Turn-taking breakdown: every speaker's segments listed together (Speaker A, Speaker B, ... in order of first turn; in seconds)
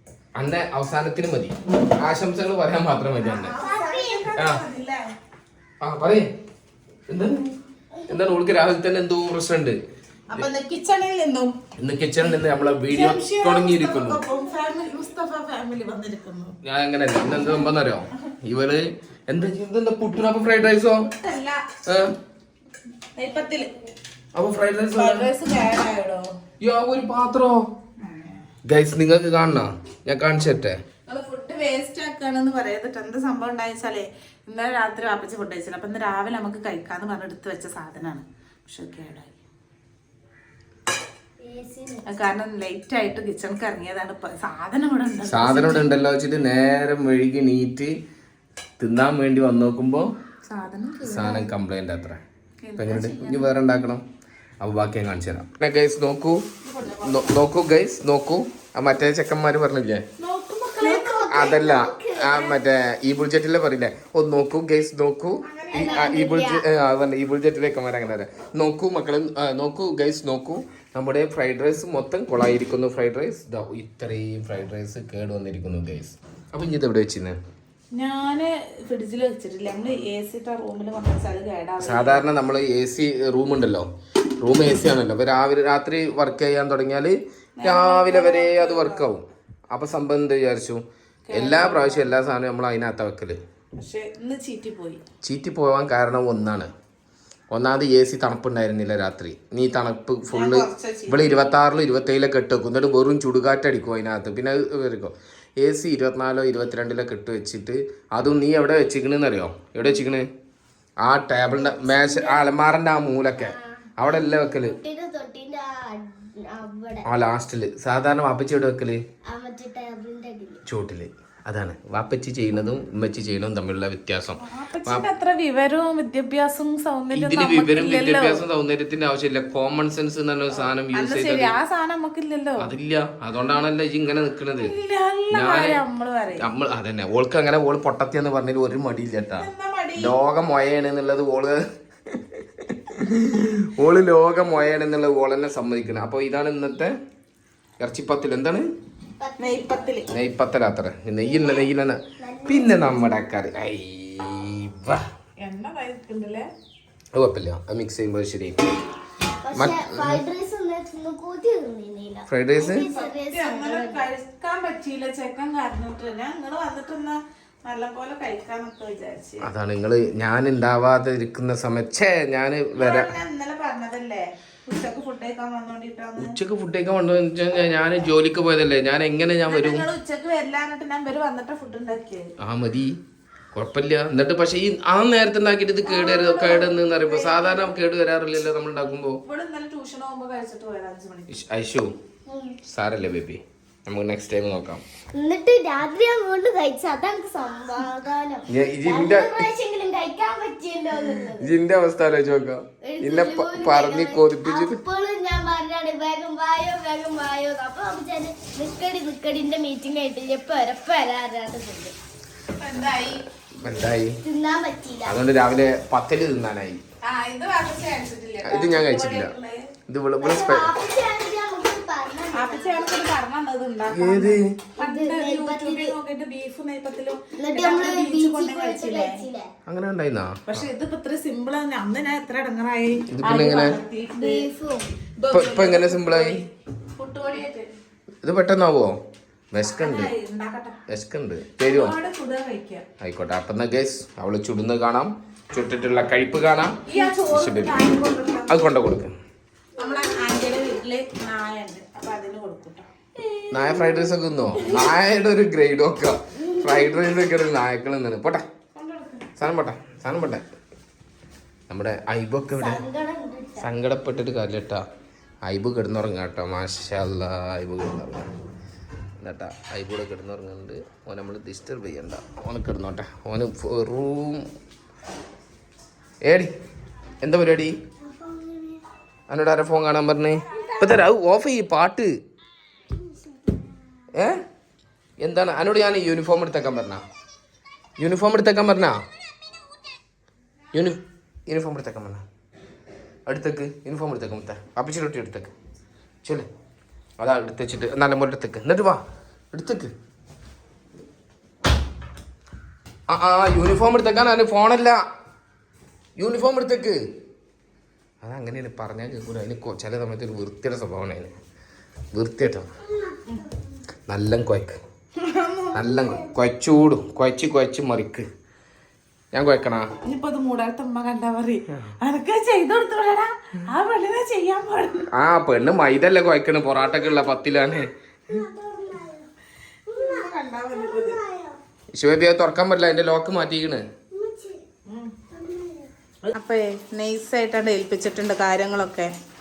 Speaker A: 0.3-3.5, 4.4-4.6, 5.8-6.3, 7.1-7.5, 8.1-9.8, 11.8-14.2, 16.6-21.1, 21.9-22.1, 24.3-25.3, 26.6-27.6, 28.6-30.8, 45.3-48.0, 48.8-50.1, 51.0-52.2, 52.8-54.0, 54.6-56.4, 57.0-60.0, 61.3-77.4, 81.8-83.9, 84.4-93.4, 95.2-96.7, 97.5-110.3, 111.0-114.8, 117.0-119.0, 120.7-125.0, 127.1-131.5, 132.6-134.7, 135.3-135.8, 136.4-146.9, 147.8-148.6, 150.1-155.0, 157.1-158.6, 159.5-160.2, 162.3-162.9, 169.4-173.1, 176.2-179.8, 182.4-182.9, 183.5-189.2, 191.3-191.9, 192.7-194.8, 198.5-199.4, 201.4-204.8, 213.6-214.2, 215.0-216.8, 218.4-219.3, 219.9-220.7, 223.9-224.6, 229.7-230.7, 233.1-233.8, 235.3-236.4, 238.2-238.9, 239.5-240.1, 240.9-241.9, 243.0-247.8, 248.5-249.1, 253.5-258.4, 259.4-260.4, 261.7-262.8, 263.6-264.8, 265.4-268.3, 269.2-274.4, 276.2-276.5, 277.2-277.7, 279.3-282.1, 284.1-284.4, 285.2-287.0, 288.0-289.0, 290.7-292.2, 293.2-295.5, 297.2-299.9, 303.1-305.0, 306.2-307.0, 308.2-311.3, 312.1-312.7, 314.1-314.8, 315.7-318.2, 319.3-319.9, 321.7-321.9, 325.1-327.9, 331.9-333.8
Speaker B: 3.2-5.1, 10.3-11.5, 12.9-16.6, 17.4-17.6, 21.0-21.6, 23.1-23.7, 24.9-26.3, 28.0-28.5, 31.1-39.4, 42.1-45.9, 50.5-51.5, 52.6-53.5, 56.6-57.4, 60.2-61.4, 65.5-66.2, 77.9-82.2, 87.6-89.1, 91.3-92.1, 93.8-95.0, 100.3-101.5, 124.4-128.4, 130.5-132.7, 134.6-136.5, 139.4-140.1, 149.4-150.1, 155.4-156.5, 162.9-169.5, 172.8-176.4, 179.5-182.3, 186.1-187.7, 189.2-191.3, 212.6-213.2, 217.0-219.6, 222.3-229.2, 230.5-234.5, 235.2-237.7, 239.6-240.8, 241.6-242.8, 246.9-248.5, 249.8-254.0, 258.7-259.3, 315.2-315.9, 320.0-325.1, 330.0-331.2, 334.9-335.1, 336.2-339.1
Speaker C: 3.6-4.3, 41.4-42.1, 60.8-62.4, 65.7-66.6, 111.4-112.4, 113.4-113.8, 114.4-117.1, 119.3-120.6, 149.2-149.9, 151.2-151.6, 152.2-153.1, 159.4-164.0, 185.9-186.7, 192.3-192.6, 195.1-201.5, 202.8-211.9, 214.2-215.2, 220.2-222.9, 224.8-225.9, 227.3-229.5, 234.1-234.9, 256.4-257.0, 262.5-263.7, 278.0-278.8, 328.3-329.3, 329.9-331.6, 334.1-334.6, 335.3-335.9